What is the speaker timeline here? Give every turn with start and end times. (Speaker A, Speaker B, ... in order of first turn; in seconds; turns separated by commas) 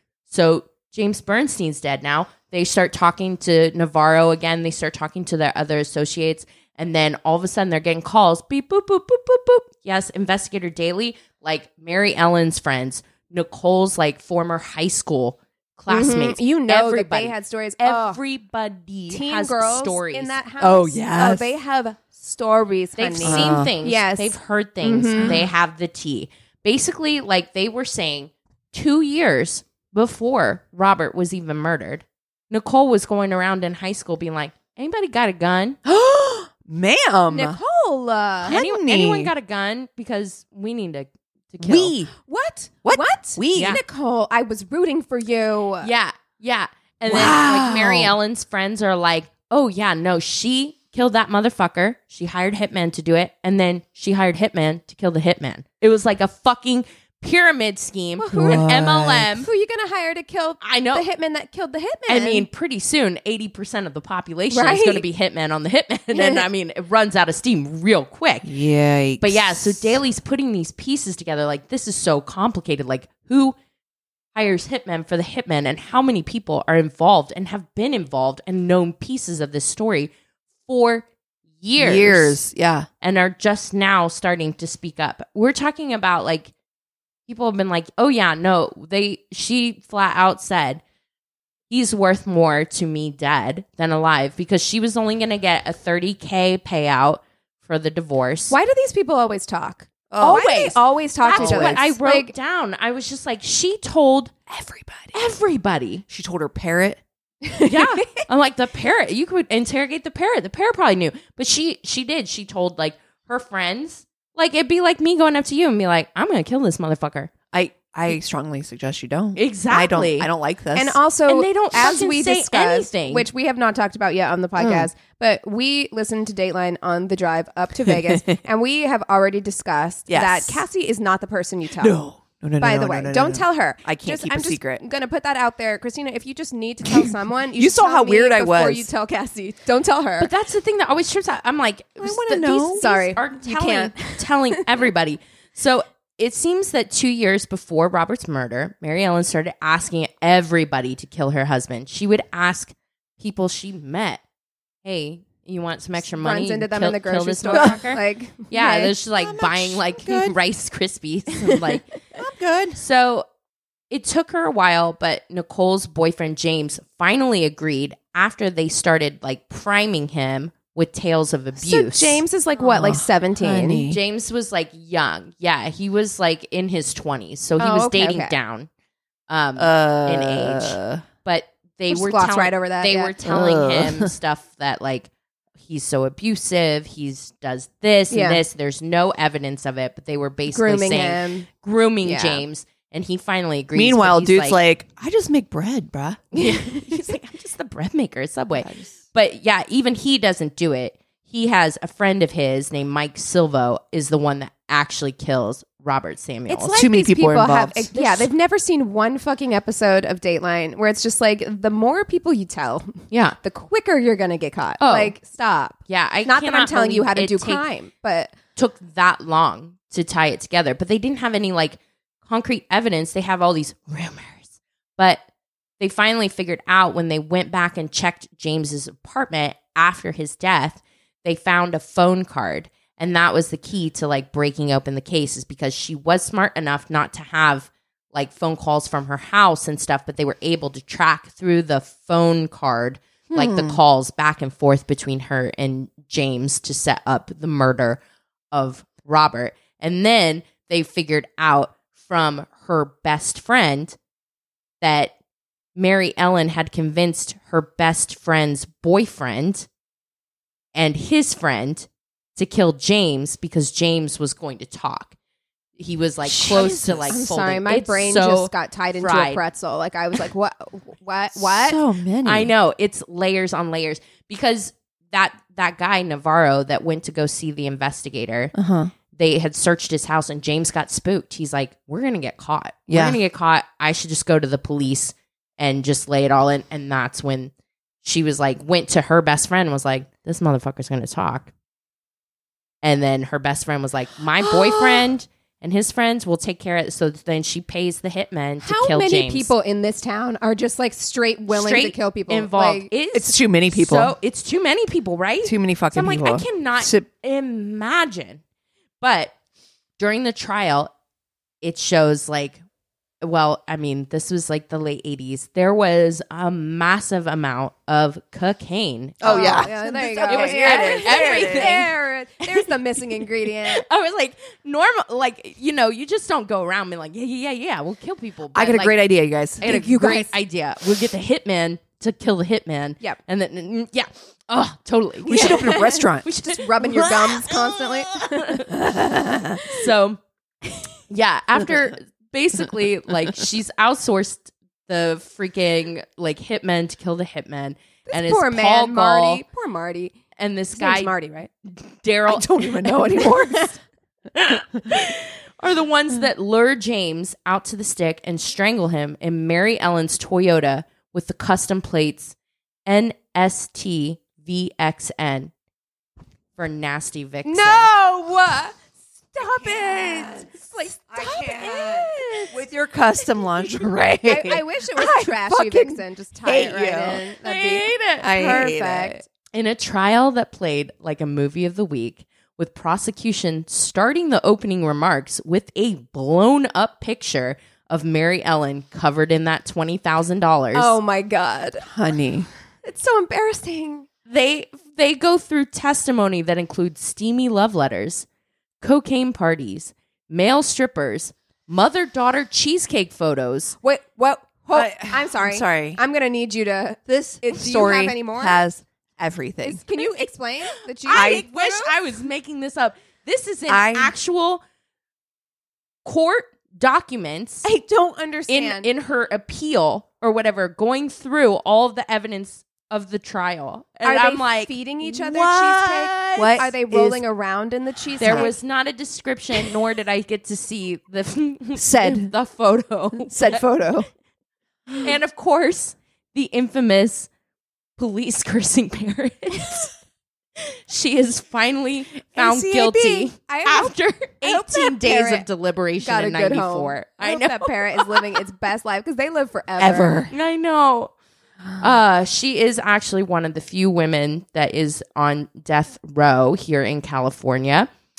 Speaker A: 0.3-20.4, Speaker B: 15.9-18.2, Speaker B: 19.1-25.4, Speaker C: 20.6-21.5, Speaker A: 23.0-35.8, Speaker C: 23.2-23.7, Speaker C: 25.2-25.4, Speaker C: 35.8-37.6, Speaker B: 37.3-38.5, Speaker C: 38.4-39.3, Speaker A: 38.5-42.0, Speaker C: 41.6-42.1, Speaker B: 42.2-45.9, Speaker C: 42.8-43.8, Speaker A: 43.5-43.8, Speaker A: 45.8-59.5, Speaker C: 47.1-48.1, Speaker B: 58.2-62.5, Speaker C: 58.4-59.3, Speaker A: 60.6-61.0, Speaker A: 62.1-68.5, Speaker B: 64.5-65.0, Speaker B: 66.1-66.4, Speaker C: 68.4-70.0, Speaker A: 69.2-73.5, Speaker A: 74.3-80.1, Speaker A: 80.7-81.0, Speaker A: 81.6-82.4, Speaker C: 81.8-82.9, Speaker A: 83.0-86.5, Speaker A: 87.3-90.8, Speaker A: 91.7-98.5, Speaker B: 98.5-102.3, Speaker C: 100.1-100.8, Speaker A: 100.2-104.5, Speaker C: 101.3-101.8, Speaker C: 104.5-105.2, Speaker A: 105.1-106.0, Speaker C: 106.1-107.0, Speaker B: 107.5-108.2, Speaker A: 107.7-117.3, Speaker C: 117.5-121.0, Speaker A: 119.4-120.3, Speaker B: 120.7-132.0, Speaker A: 121.3-123.3, Speaker C: 124.6-124.9, Speaker C: 127.9-128.4, Speaker C: 130.1-130.7, Speaker C: 131.8-134.8, Speaker B: 132.6-140.3, Speaker C: 136.9-138.9, Speaker A: 140.2-154.2, Speaker C: 142.0-142.9, Speaker B: 142.8-144.6, Speaker A: 154.8-161.9, Speaker B: 156.0-158.9, Speaker C: 157.5-157.8, Speaker C: 159.2-160.4, Speaker C: 162.2-162.8, Speaker A: 162.8-163.3, Speaker A: 163.9-172.2, Speaker B: 171.6-173.9, Speaker C: 172.6-174.0, Speaker A: 173.9-178.7, Speaker B: 177.6-178.3, Speaker A: 179.3-194.6, Speaker C: 179.6-181.0, Speaker B: 181.9-183.1, Speaker C: 183.2-184.1, Speaker B: 188.1-188.4, Speaker B: 190.5-191.5, Speaker B: 192.0-192.4, Speaker C: 193.7-196.3, Speaker A: 196.3-206.8, Speaker B: 196.3-197.0, Speaker C: 198.5-198.9, Speaker B: 206.5-218.3, Speaker C: 206.7-207.9, Speaker A: 213.1-213.4, Speaker A: 214.8-215.1, Speaker A: 215.9-217.7, Speaker A: 218.6-225.2, Speaker A: 225.8-248.0, Speaker C: 243.3-243.8, Speaker A: 248.5-254.0, Speaker A: 254.8-255.1, Speaker A: 255.8-259.7, Speaker A: 260.7-265.1, Speaker A: 265.8-269.4, Speaker C: 266.2-267.2, Speaker B: 267.1-271.8, Speaker C: 271.4-272.5, Speaker A: 272.2-278.5, Speaker C: 278.6-278.9, Speaker A: 279.1-287.5, Speaker C: 282.9-283.2, Speaker A: 288.0-291.5, Speaker A: 292.8-299.5, Speaker B: 298.6-302.9, Speaker A: 301.5-308.4, Speaker C: 303.1-304.1, Speaker C: 305.4-307.1, Speaker A: 309.0-309.3, Speaker A: 310.0-310.9, Speaker A: 311.6-312.6, Speaker A: 313.2-319.7, Speaker C: 319.2-321.9, Speaker B: 319.2-323.9, Speaker A: 320.3-329.0, Speaker C: 328.5-330.3, Speaker A: 329.6-338.8, Speaker C: 335.2-336.4, Speaker B: 335.3-338.7, Speaker C: 338.7-339.6, Speaker A: 339.6-340.2, Speaker A: 341.1-349.4, Speaker B: 348.1-350.2, Speaker A: 350.4-351.1, Speaker B: 350.7-351.5, Speaker A: 351.6-353.3, Speaker C: 352.3-353.7, Speaker A: 354.3-362.4, Speaker A: 362.9-365.5, Speaker A: 366.6-367.9, Speaker B: 367.4-368.8, Speaker B: 369.3-372.6, Speaker C: 369.4-377.3, Speaker B: 374.2-379.2, Speaker A: 377.4-378.3, Speaker C: 378.2-379.2, Speaker A: 379.5-390.9, Speaker B: 390.7-391.9, Speaker C: 391.8-392.5, Speaker B: 392.8-394.1, Speaker A: 394.3-398.3, Speaker A: 398.8-403.8, Speaker B: 403.8-408.6, Speaker C: 404.7-406.0, Speaker C: 407.1-409.8, Speaker B: 409.6-411.8, Speaker A: 411.1-414.6, Speaker C: 411.1-411.9, Speaker C: 413.7-414.1, Speaker A: 416.0-417.6, Speaker B: 417.6-418.9, Speaker A: 418.5-426.5, Speaker B: 424.0-428.5, Speaker C: 426.4-427.2, Speaker C: 428.2-428.5, Speaker A: 428.2-433.6, Speaker C: 431.7-432.3, Speaker C: 433.2-434.1, Speaker A: 434.9-437.3, Speaker A: 438.0-439.9, Speaker A: 440.6-448.4, Speaker C: 442.4-443.3, Speaker B: 443.4-445.4, Speaker B: 446.0-450.3, Speaker C: 449.8-450.3, Speaker A: 450.3-451.1, Speaker A: 451.8-457.9